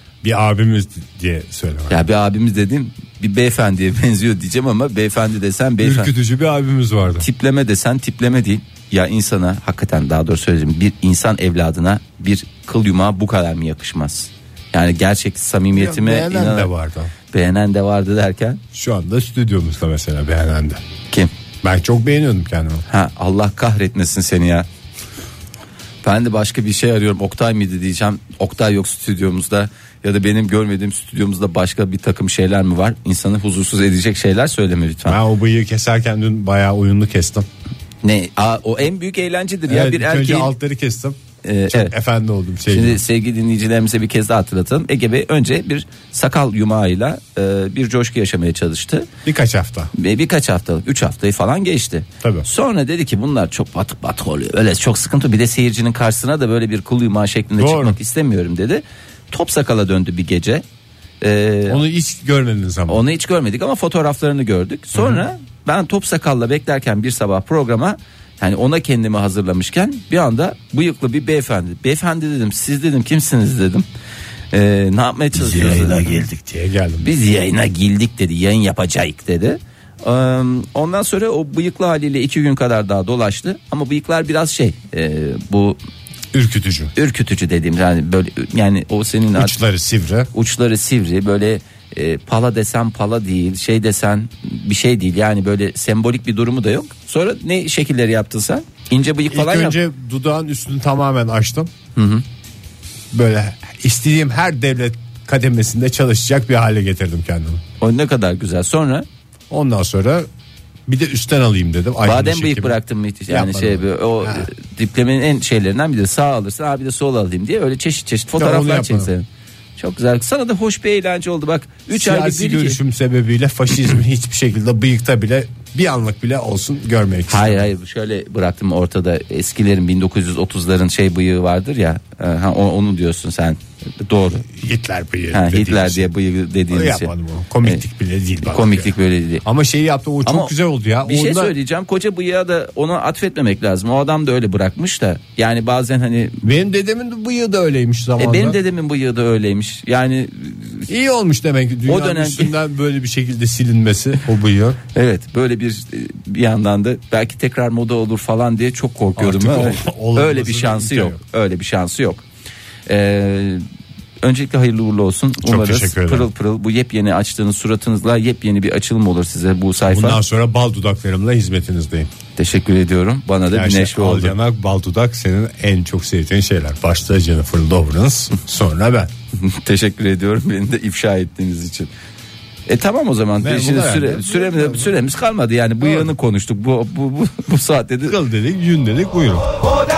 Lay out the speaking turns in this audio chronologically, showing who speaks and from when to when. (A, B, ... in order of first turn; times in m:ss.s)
0:00.2-0:02.0 A
0:01.9-0:06.1 B
0:05.8-0:07.2 A
0:07.2-0:16.7 B
0:15.7-0:17.1 A
0:17.3-0:18.6 B
0:18.7-0:20.8 A
0:21.6-0:22.8 A
0:22.9-0:24.6 B
0:26.0-0:35.2 B
0:35.0-0:37.5 A
0:38.0-0:40.5 B
0:39.7-0:41.2 A
0:41.4-0:41.9 B
0:41.7-0:43.0 A
0:42.7-0:49.1 B
0:49.2-0:49.9 A
0:49.9-1:00.6 B
0:52.2-0:52.4 A
0:57.6-0:58.0 A
1:01.2-1:01.8 B
1:01.7-1:03.0 A
1:02.9-1:13.8 B
1:04.9-1:05.2 A
1:14.5-1:16.2 B
1:15.3-1:17.1 A
1:17.0-1:25.8 B
1:26.3-1:26.9 A
1:26.9-1:29.6 B
1:29.3-1:30.3 A
1:30.3-1:39.8 B
1:39.3-1:41.7 A
1:42.0-1:42.2 B
1:43.1-1:47.6 A
1:47.8-1:49.0 B
1:49.5-1:50.3 A
1:50.9-1:52.8 A
1:52.0-1:59.2 B
1:53.3-1:54.5 A
1:58.4-1:59.1 A
1:59.8-2:02.8 B
2:01.9-2:07.6 A
2:07.3-2:14.4 B
2:14.4-2:16.1 A
2:15.3-2:17.1 B
2:16.7-2:21.5 A
2:18.4-2:19.4 B
2:20.2-2:20.5 B
2:21.0-2:26.4 B
2:26.4-2:28.6 A
2:28.2-2:30.9 B
2:30.9-2:34.8 A
2:31.8-2:32.5 B
2:34.9-2:42.2 B
2:39.2-2:41.2 A
2:42.9-2:43.6 B
2:44.2-2:50.2 B
2:45.4-2:46.3 A
2:49.8-2:52.1 A
2:52.4-2:54.4 B
2:53.5-2:59.1 A
2:59.4-3:01.9 B
3:02.7-3:08.2 B
3:03.4-3:04.9 A
3:05.8-3:06.1 A
3:08.1-3:09.5 A